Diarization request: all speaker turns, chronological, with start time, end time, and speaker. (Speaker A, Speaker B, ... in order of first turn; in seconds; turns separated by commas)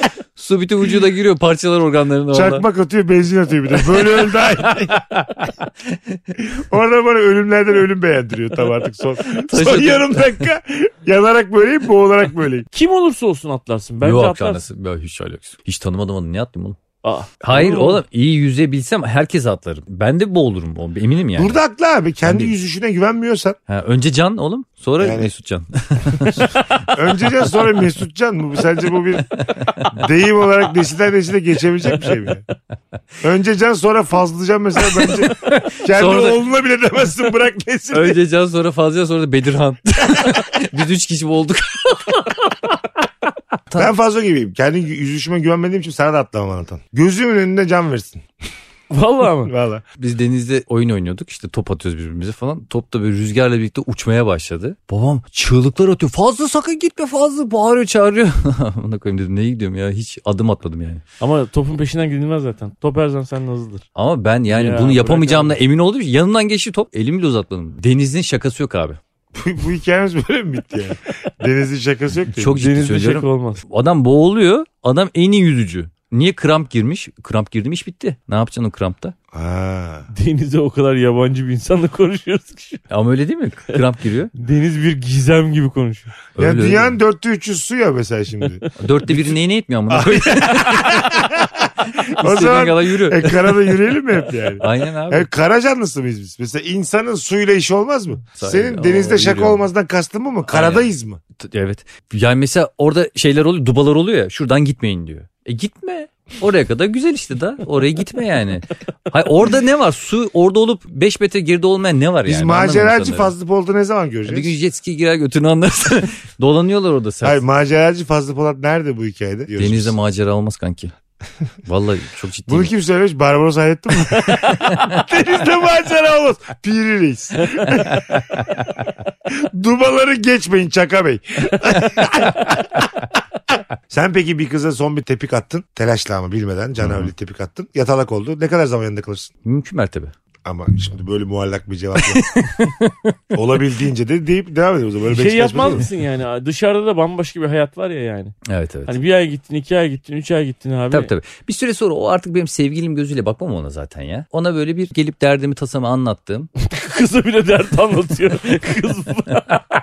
Speaker A: 0.3-2.6, Speaker B: 2.3-5.0, Speaker A: 4.6-5.9, Speaker B: 6.4-12.7, Speaker A: 9.3-10.4, Speaker C: 12.7-14.6, Speaker A: 14.0-16.8, Speaker C: 17.0-18.0, Speaker A: 17.4-21.6, Speaker B: 21.4-23.6, Speaker A: 22.2-22.5, Speaker A: 23.7-26.9, Speaker B: 25.0-25.3, Speaker B: 26.3-32.4, Speaker A: 29.3-30.1, Speaker B: 33.2-38.2, Speaker A: 35.0-36.4, Speaker A: 37.9-42.3, Speaker B: 43.8-48.2, Speaker C: 48.9-49.5, Speaker B: 49.4-49.8, Speaker A: 50.0-61.0, Speaker C: 61.2-63.8, Speaker A: 64.0-69.0, Speaker C: 64.5-65.6, Speaker B: 69.3-72.6, Speaker A: 72.4-79.1, Speaker C: 72.5-73.6, Speaker B: 79.3-80.1, Speaker C: 80.1-82.8, Speaker A: 82.9-84.3, Speaker C: 84.3-86.1, Speaker A: 86.3-86.9, Speaker B: 86.4-89.3, Speaker A: 88.8-91.3, Speaker B: 89.9-101.2, Speaker A: 91.8-93.8, Speaker A: 94.6-95.3, Speaker A: 98.4-99.6, Speaker A: 100.5-113.3, Speaker B: 112.2-114.5, Speaker A: 114.3-117.4, Speaker B: 117.2-119.9, Speaker A: 119.5-120.9, Speaker A: 121.6-122.7, Speaker B: 122.5-128.7, Speaker A: 124.2-125.0, Speaker A: 127.8-128.4, Speaker B: 129.3-133.0, Speaker B: 133.9-139.3, Speaker A: 136.8-137.1, Speaker A: 139.4-140.1, Speaker B: 140.4-142.2, Speaker A: 142.0-143.1, Speaker B: 143.3-145.8, Speaker C: 145.1-148.3, Speaker A: 148.4-149.0, Speaker C: 148.9-151.1, Speaker A: 150.9-156.5, Speaker C: 156.7-159.6